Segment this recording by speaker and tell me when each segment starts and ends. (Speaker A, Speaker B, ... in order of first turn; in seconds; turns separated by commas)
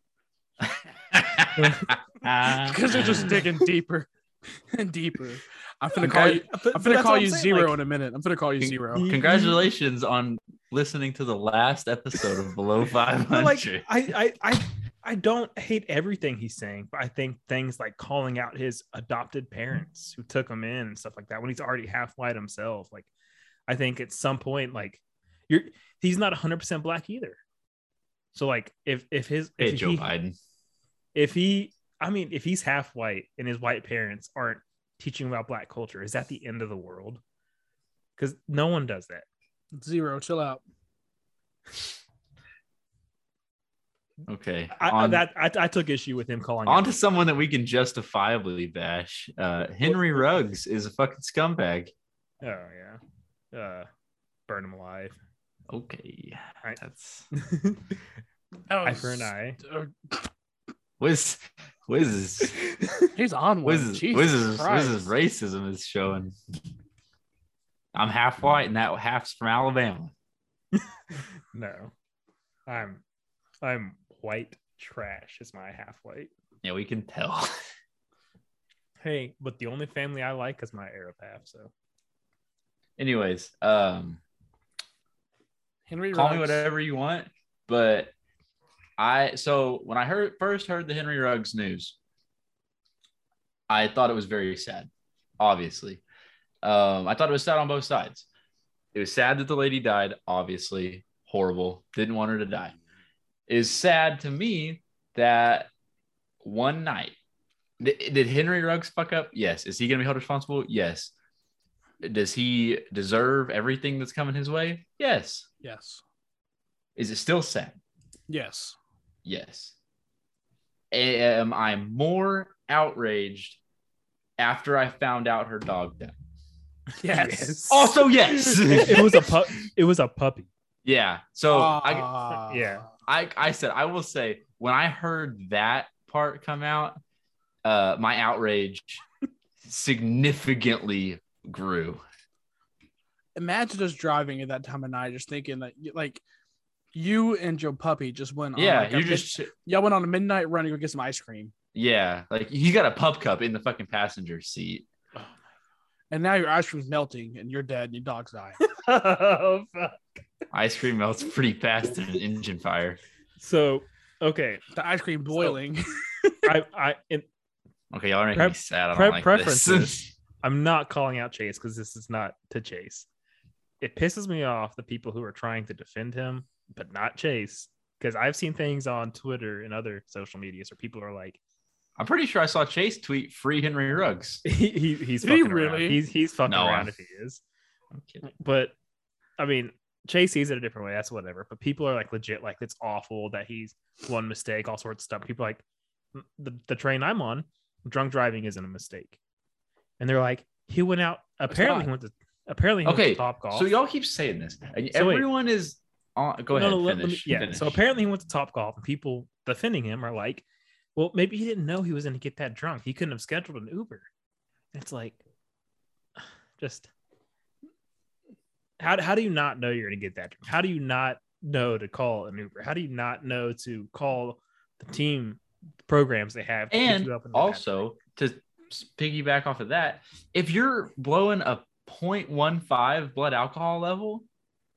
Speaker A: 0.6-3.4, Speaker B: 1.6-1.9, Speaker C: 2.5-9.1, Speaker B: 6.0-7.8, Speaker A: 6.1-6.4, Speaker A: 8.6-13.8, Speaker B: 8.9-9.6, Speaker B: 13.3-23.1, Speaker B: 23.7-27.4, Speaker B: 28.3-30.1, Speaker A: 29.6-30.4, Speaker B: 31.1-37.2, Speaker B: 38.2-39.2, Speaker C: 39.8-40.6, Speaker A: 44.2-45.2, Speaker B: 44.8-47.0, Speaker A: 46.7-51.9, Speaker B: 52.4-53.0, Speaker B: 53.5-53.9, Speaker B: 54.5-55.2, Speaker A: 55.7-57.3, Speaker B: 56.6-58.0, Speaker C: 58.7-60.3, Speaker B: 58.8-59.6, Speaker A: 61.0-62.6, Speaker B: 62.5-63.1, Speaker C: 63.1-65.1, Speaker A: 63.6-66.3, Speaker A: 67.9-70.1, Speaker B: 70.7-71.9, Speaker B: 72.7-73.0, Speaker B: 73.6-76.3, Speaker A: 76.6-77.5, Speaker B: 79.0-81.7, Speaker A: 83.0-84.2, Speaker C: 85.9-86.7, Speaker A: 86.1-88.1, Speaker A: 89.0-92.0, Speaker A: 93.7-96.0, Speaker A: 96.6-98.2, Speaker A: 98.9-102.8, Speaker A: 103.5-105.7, Speaker A: 106.4-107.2, Speaker A: 107.8-111.1, Speaker A: 112.0-115.5, Speaker C: 115.6-116.0, Speaker A: 117.0-117.8, Speaker C: 118.3-118.8, Speaker A: 119.2-119.7, Speaker A: 120.9-123.6, Speaker A: 124.4-126.2, Speaker C: 127.0-127.6, Speaker B: 127.0-130.5, Speaker A: 127.7-129.4, Speaker A: 130.8-132.1, Speaker C: 131.5-132.8, Speaker B: 132.4-132.8, Speaker A: 133.1-137.0, Speaker A: 137.6-139.0, Speaker A: 139.6-142.0, Speaker C: 143.3-146.2, Speaker C: 146.9-151.5, Speaker A: 148.6-149.5, Speaker A: 151.7-154.9, Speaker C: 156.1-158.6, Speaker B: 158.6-160.0, Speaker A: 160.5-163.0, Speaker B: 163.4-164.6, Speaker C: 164.7-166.5, Speaker B: 166.4-167.2, Speaker A: 167.9-170.1, Speaker B: 168.3-173.1, Speaker B: 173.8-181.4, Speaker A: 182.0-184.4, Speaker B: 184.4-187.4, Speaker C: 185.2-186.0, Speaker A: 186.5-186.9, Speaker A: 187.9-188.3, Speaker B: 188.2-188.7, Speaker B: 189.4-195.6, Speaker B: 196.1-199.2, Speaker B: 200.0-203.7, Speaker C: 201.5-201.9, Speaker A: 202.8-207.8, Speaker B: 204.9-205.2, Speaker B: 206.5-210.4, Speaker B: 210.9-214.1, Speaker B: 214.7-215.2, Speaker B: 216.6-216.9, Speaker B: 218.8-227.8, Speaker A: 226.7-234.2